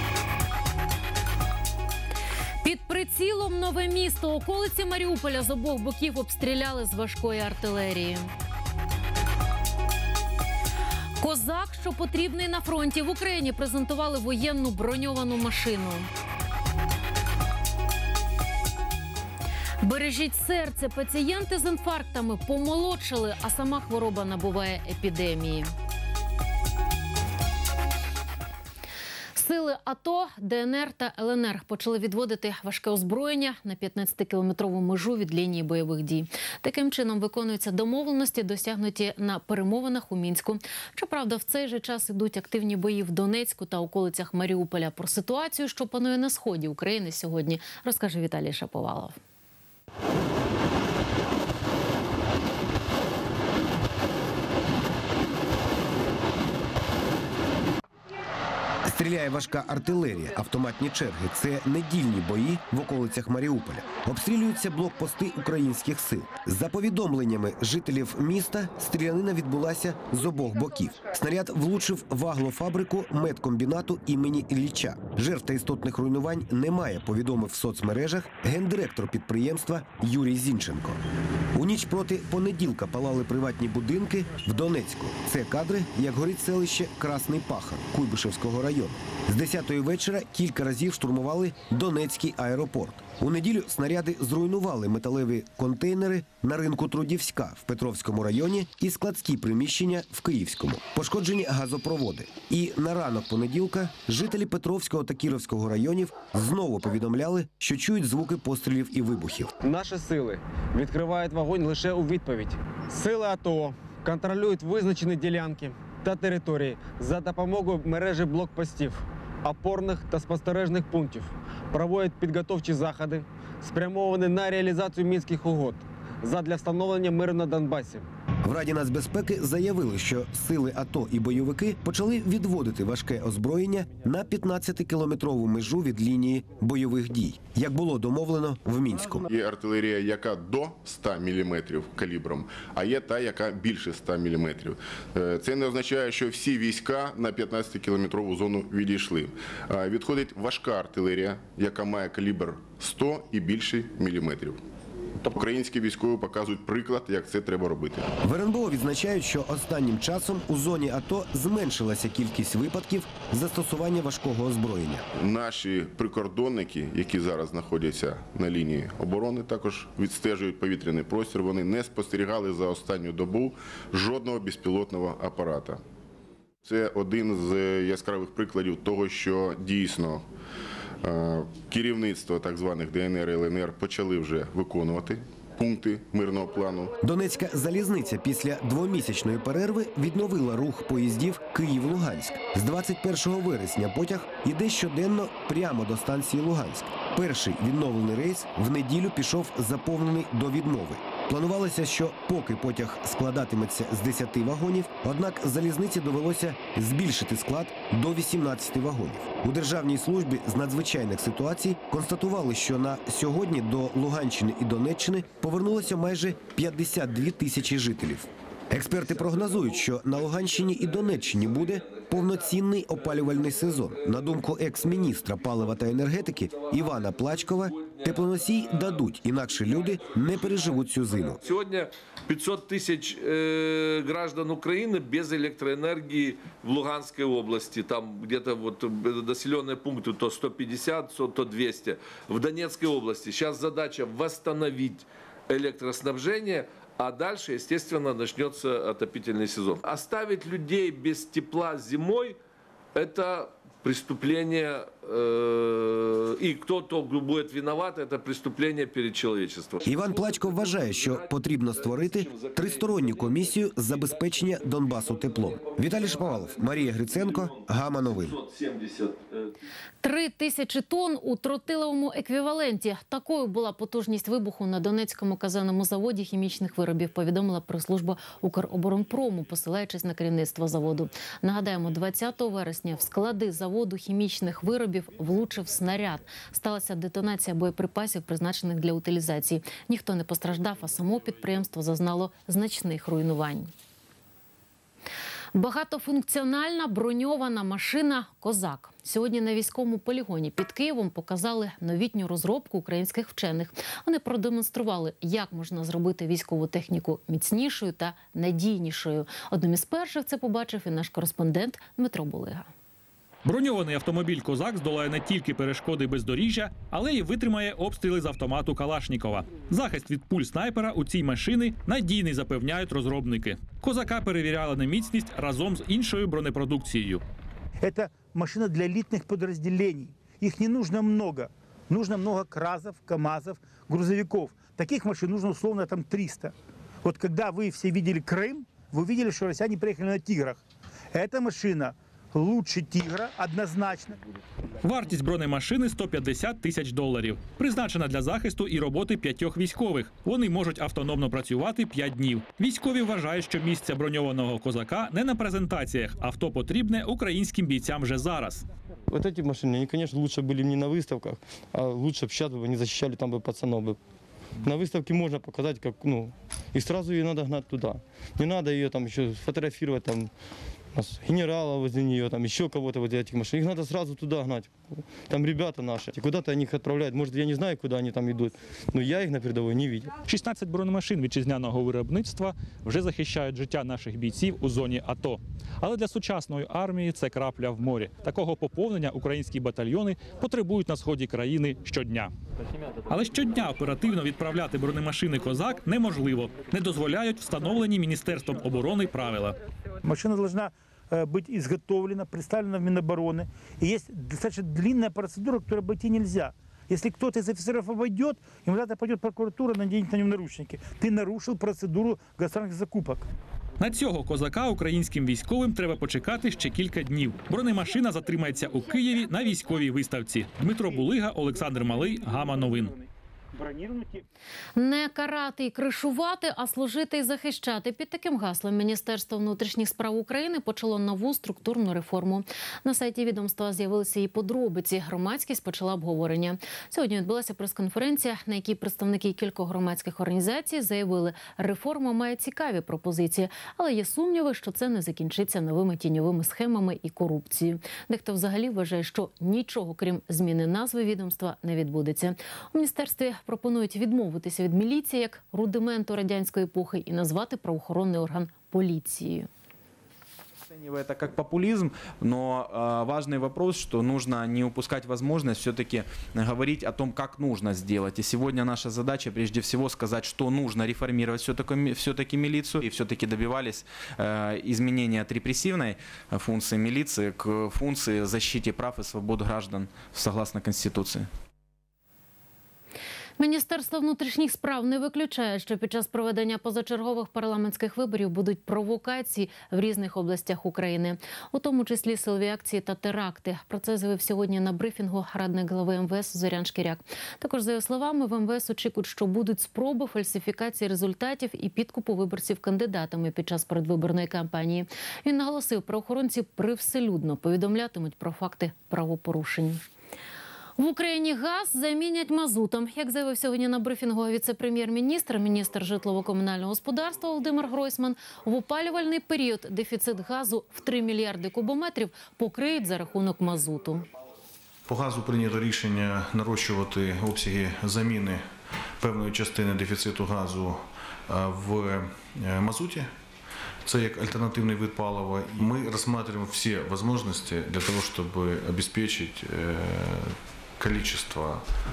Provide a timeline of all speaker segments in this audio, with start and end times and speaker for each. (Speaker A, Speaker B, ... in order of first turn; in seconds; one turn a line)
Speaker A: 2.6-8.3
Speaker A: 11.2-16.1
Speaker A: 19.8-25.7
Speaker A: 29.4-49.2
Speaker B: 58.9-81.0
Speaker B: 81.5-109.5
Speaker C: 109.6-128.1
Speaker B: 128.4-139.3
Speaker D: 139.3-154.6
Speaker D: 155.2-158.0
Speaker B: 158.2-165.1
Speaker D: 165.2-175.8
Speaker D: 176.7-180.2
Speaker D: 181.0-186.9
Speaker B: 187.0-231.4
Speaker E: 220.8-222.2
Speaker E: 226.6-228.8
Speaker E: 230.4-252.4
Speaker E: 252.9-263.3
Speaker B: 259.8-268.4
Speaker E: 263.9-264.2
Speaker E: 264.8-267.6
Speaker E: 268.2-269.4
Speaker A: 270.0-293.7
Speaker A: 295.5-312.7
Speaker F: 313.4-327.2
Speaker G: 327.9-336.5
Speaker G: 337.1-340.6
Speaker G: 341.1-344.2
Speaker F: 344.8-358.6
Speaker H: 359.1-364.0
Speaker H: 364.6-370.3
Speaker H: 370.9-380.1
Speaker F: 380.3-392.3
Speaker F: 393.1-399.6
Speaker G: 400.1-413.2
Speaker F: 413.8-423.0
Speaker G: 423.6-424.2
Speaker A: 424.8-459.5
Speaker I: 460.7-481.3
Speaker A: 483.4-509.8
Speaker A: 510.8-524.1
Speaker J: 524.9-528.4
Speaker J: 529.0-533.1
Speaker J: 533.9-541.6